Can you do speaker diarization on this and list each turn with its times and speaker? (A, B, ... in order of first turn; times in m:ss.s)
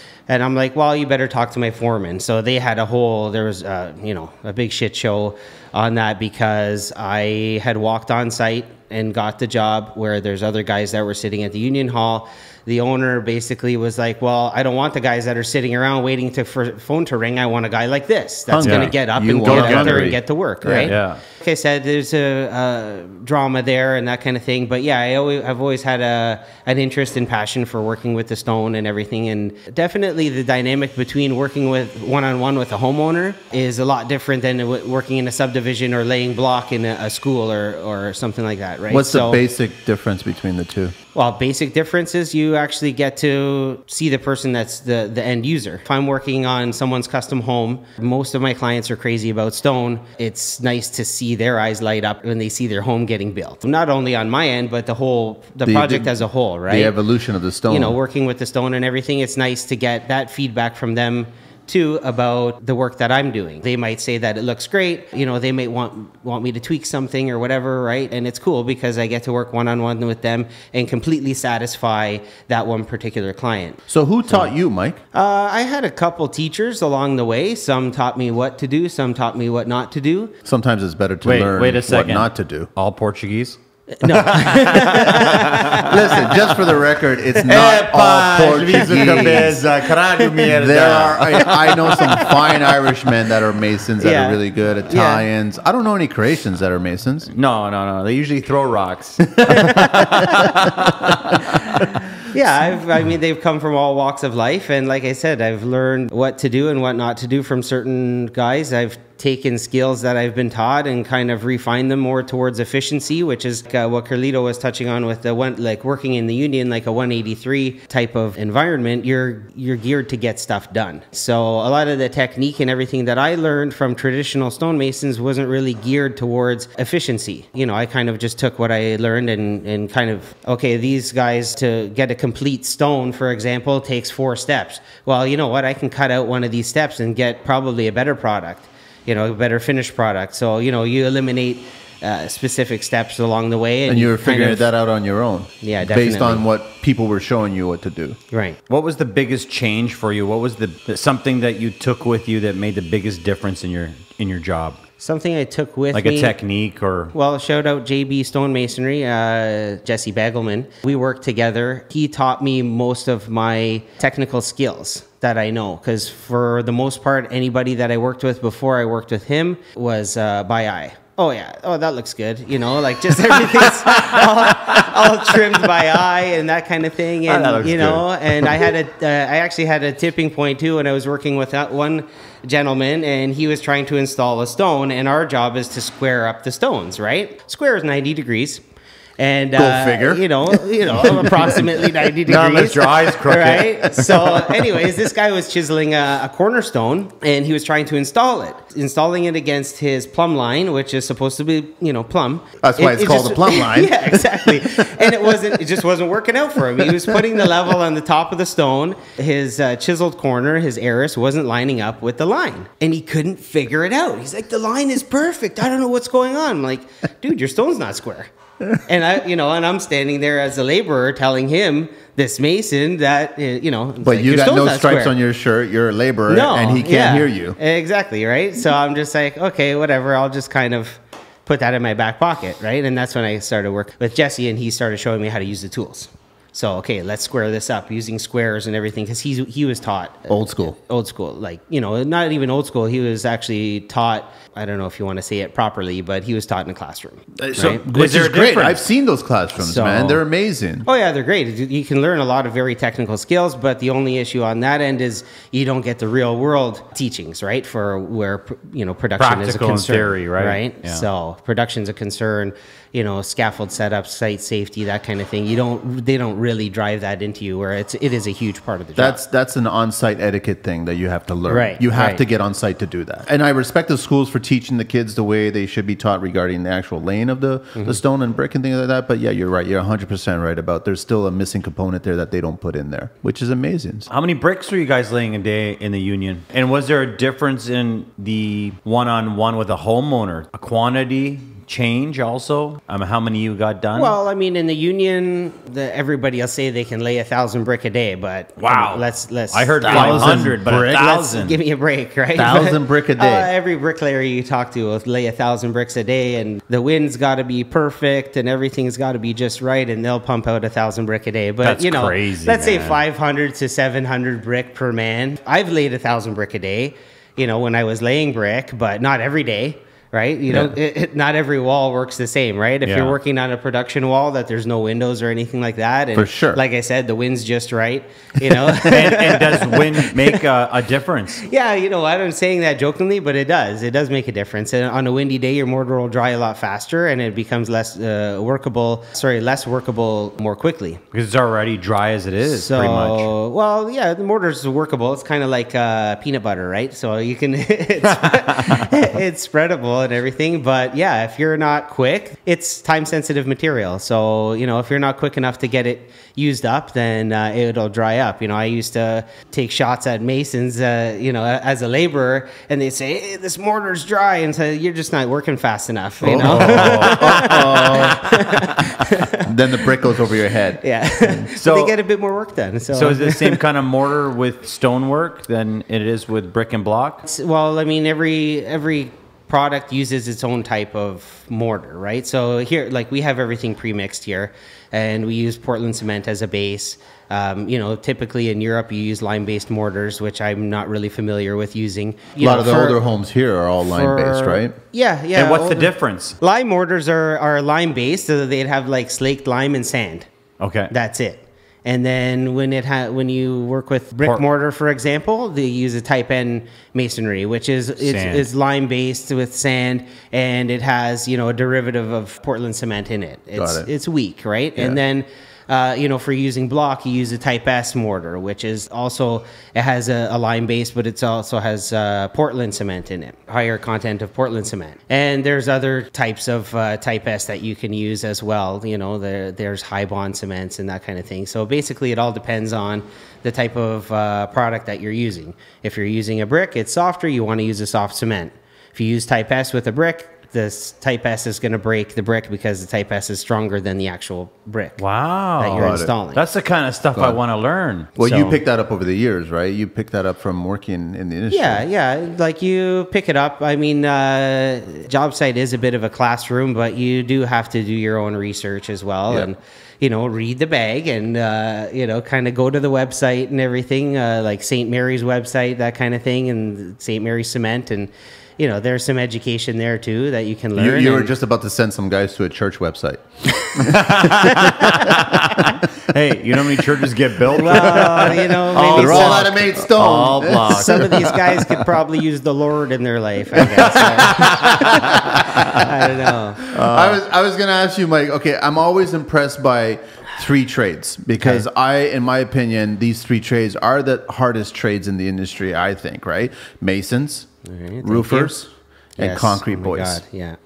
0:00.3-0:39.4 A
0:18.5-0:20.9 B
0:18.6-0:20.2 C
0:20.8-0:21.2 C
0:38.9-0:40.9 B
0:41.1-0:56.9 A
0:55.6-0:58.0 B
0:57.7-1:13.8 A
1:13.9-1:15.0 B
1:15.1-1:20.3 A
1:20.4-1:22.7 B
1:21.2-1:25.9 C
1:24.0-1:26.6 A
1:25.6-1:37.3 B
1:27.5-1:32.5 C
1:32.0-1:32.3 A
1:34.0-1:35.2 A
1:37.3-1:41.9 C
1:39.5-1:40.5 A
1:39.5-1:40.0 B
1:42.3-2:24.7 A
2:23.9-2:28.2 B
2:25.6-2:26.4 A
2:28.3-2:28.6 A
2:28.7-2:34.8 C
2:35.0-2:36.4 A
2:35.9-2:37.1 C
2:37.1-3:08.6 A
2:53.5-2:54.9 C
2:57.3-2:58.5 C
3:09.2-3:45.1 A
3:09.6-3:11.8 B
3:12.3-3:14.4 C
3:22.6-3:25.1 B
3:26.9-3:27.2 B
3:44.0-3:47.6 B
3:46.3-4:07.8 A
4:00.3-4:00.7 B
4:07.4-4:10.9 B
4:07.6-4:08.8 C
4:09.6-4:10.2 A
4:10.8-4:29.2 A
4:19.2-4:21.0 C
4:29.0-4:44.1 B
4:31.5-4:32.2 A
4:37.7-4:38.0 A
4:44.1-4:54.1 C
4:53.9-5:30.4 A
4:58.6-5:01.6 C
4:59.8-5:01.0 B
5:02.3-5:03.5 B
5:11.6-5:13.0 C
5:22.8-5:23.2 C
5:26.1-5:26.6 B
5:28.7-5:31.4 C
5:31.4-5:41.0 A
5:41.1-5:43.3 C
5:42.4-6:09.5 A
5:48.2-5:48.8 C
6:06.2-6:08.6 B
6:06.3-6:08.0 C
6:09.2-6:11.5 B
6:10.8-6:13.6 A
6:11.6-6:11.9 C
6:12.9-6:17.2 C
6:17.2-6:33.0 A
6:32.4-6:34.7 B
6:33.9-6:40.3 A
6:35.3-6:36.4 C
6:40.6-6:40.9 C
6:40.9-7:25.0 A
6:48.0-6:48.5 C
6:53.5-6:53.9 B
7:25.0-7:28.6 C
7:25.6-7:26.4 A
7:25.8-7:26.1 B
7:28.2-7:31.8 B
7:31.5-7:51.3 A
7:50.7-7:55.8 B
7:53.8-8:01.3 C
7:57.5-7:59.5 A
7:58.0-7:58.3 B
7:58.8-8:01.6 B
8:00.6-8:06.6 A
8:03.8-8:05.9 B
8:03.9-8:05.8 C
8:06.6-8:07.2 C
8:06.7-8:17.5 B
8:17.6-8:18.6 A
8:18.0-8:20.2 B
8:19.2-8:20.6 A